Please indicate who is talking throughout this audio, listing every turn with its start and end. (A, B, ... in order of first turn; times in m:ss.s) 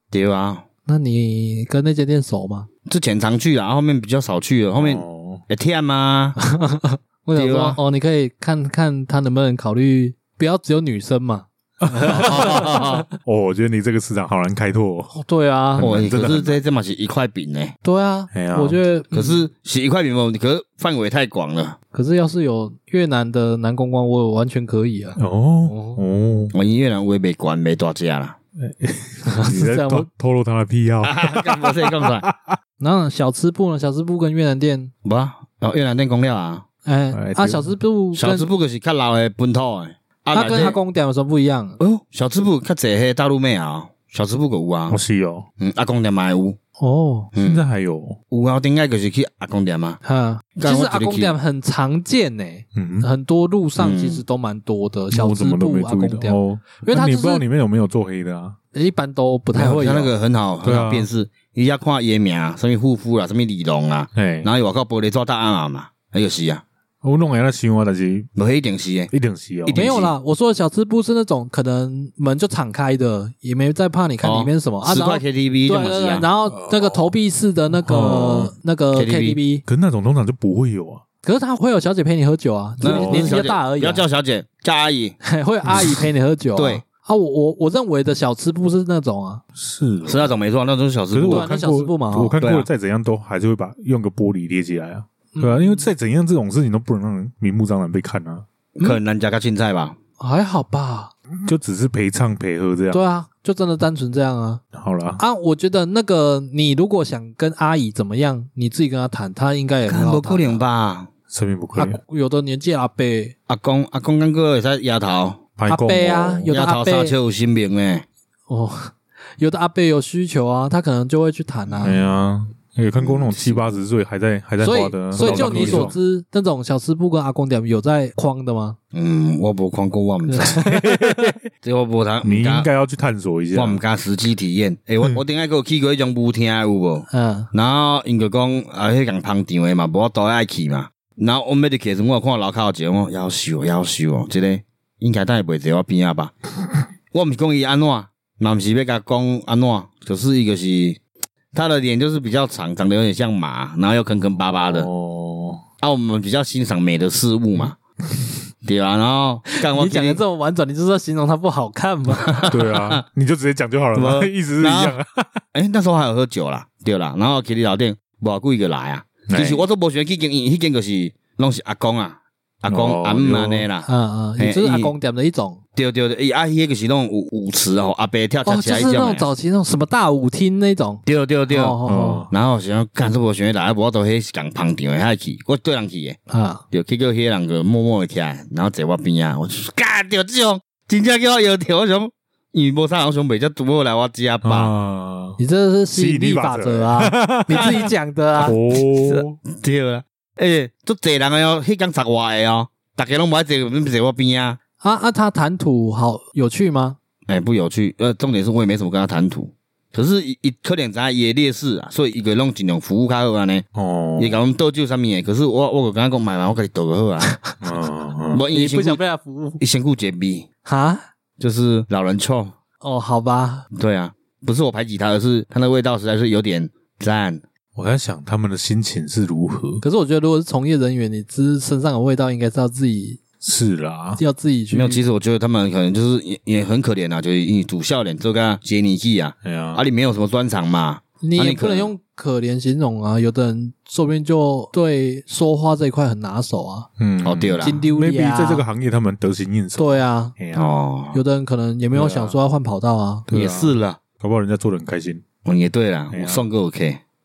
0:00.1-0:00.6 A
0:00.9-0:02.7 B
0:02.9-0:06.4 A
0:04.7-0:05.4 C
0:06.4-0:13.0 B
0:07.4-0:07.8 A
0:11.8-0:15.1 C
0:12.1-0:13.0 A
0:15.1-0:15.9 B
0:15.7-0:16.6 C
0:15.8-0:17.8 A
0:17.8-0:19.4 B
0:18.3-0:18.8 C
0:19.1-0:21.8 A
0:21.9-0:26.0 B
0:25.2-0:26.5 C
0:26.5-0:28.4 A
0:28.6-0:32.6 C
0:29.3-0:30.1 B
0:31.0-0:32.2 A
0:32.8-0:34.9 B
0:35.0-0:36.6 A
0:36.8-0:38.5 B
0:37.1-0:37.7 C
0:38.1-0:40.8 A
0:40.3-0:41.8 B
0:41.8-0:45.0 A
0:44.9-0:45.5 C
0:45.6-0:46.6 A
0:46.8-0:47.3 B
0:47.3-0:47.6 A
0:47.4-0:48.2 C
0:48.3-0:50.0 A
0:50.0-0:57.4 B
0:50.6-0:51.3 A
0:52.7-0:53.1 C
0:53.8-0:54.2 A
0:55.1-0:58.6 C
0:58.7-1:00.1 B
0:59.5-1:06.6 A
1:00.6-1:01.1 C
1:04.1-1:04.5 C
1:07.0-1:08.3 C
1:08.3-1:09.1 A
1:09.1-1:10.0 C
1:09.6-1:10.1 A
1:09.7-1:19.6 B
1:14.2-1:16.2 A
1:16.5-1:17.1 C
1:17.7-1:18.5 C
1:18.9-1:19.4 A
1:19.6-1:21.0 C
1:21.2-1:24.0 B
1:22.8-1:23.4 C
1:22.8-1:25.2 A
1:25.2-1:29.4 B
1:26.6-1:26.8 A
1:29.6-1:30.3 C
1:30.0-1:31.5 A
1:31.1-1:38.4 C
1:31.3-1:32.3 B
1:32.4-1:32.7 A
1:35.3-1:35.9 B
1:38.8-1:40.0 A
1:40.2-1:41.1 B
1:41.4-1:43.0 C
1:42.9-1:44.6 B
1:44.7-1:45.2 C
1:45.2-1:50.6 B
1:49.9-1:51.1 A
1:51.3-1:52.0 C
1:51.8-1:53.3 B
1:53.5-1:55.4 A
1:55.6-1:56.5 C
1:55.7-1:57.2 B
1:56.5-1:58.0 A
1:58.5-2:02.1 B
2:01.8-2:05.9 C
2:03.0-2:03.6 A
2:04.6-2:08.8 B
2:05.2-2:05.9 A
2:08.9-2:10.6 A
2:10.3-2:10.9 B
2:10.6-2:11.4 C
2:11.6-2:12.7 A
2:12.2-2:13.8 C
2:13.5-2:26.3 A
2:17.1-2:17.5 B
2:27.1-2:31.0 A
2:31.5-2:34.9 A
2:34.5-2:35.6 C
2:35.8-2:37.8 A
2:38.6-2:40.2 A
2:39.5-2:42.5 B
2:42.2-2:43.0 A
2:42.5-2:45.4 C
2:43.9-2:44.9 A
2:45.5-2:54.9 A
2:49.3-2:49.6 C
2:52.7-2:53.7 C
2:53.8-2:55.6 B
2:55.8-2:59.2 A
2:58.4-3:02.2 B
3:01.0-3:01.8 A
3:01.8-3:02.3 C
3:02.3-3:06.2 A
3:06.3-3:06.6 B
3:06.7-3:14.7 A
3:14.4-3:15.4 C
3:15.4-3:18.6 B
3:15.9-3:17.9 C
3:17.5-3:24.6 A
3:18.4-3:19.4 C
3:24.8-3:27.0 B
3:27.3-3:33.6 A
3:33.7-3:34.3 C
3:34.2-3:37.3 A
3:37.3-3:37.6 B
3:37.6-3:38.4 C
3:38.3-3:39.0 A
3:38.5-3:39.6 B
3:39.6-3:40.5 A
3:40.6-3:41.0 B
3:41.4-3:42.5 A
3:42.8-3:43.6 B
3:43.7-3:47.4 A
3:47.7-3:49.8 C
3:49.8-3:53.2 B
3:53.4-3:54.2 C
3:54.2-3:55.0 B
3:54.7-4:01.9 A
3:59.4-3:59.8 C
4:01.2-4:06.9 B
4:07.0-4:10.7 C
4:07.2-4:07.8 A
4:07.6-4:08.6 B
4:09.8-4:10.4 B
4:10.5-4:11.2 A
4:11.1-4:13.2 B
4:12.0-4:12.3 A
4:13.3-4:15.2 C
4:13.3-4:14.0 A
4:15.4-4:17.0 A
4:16.1-4:16.4 C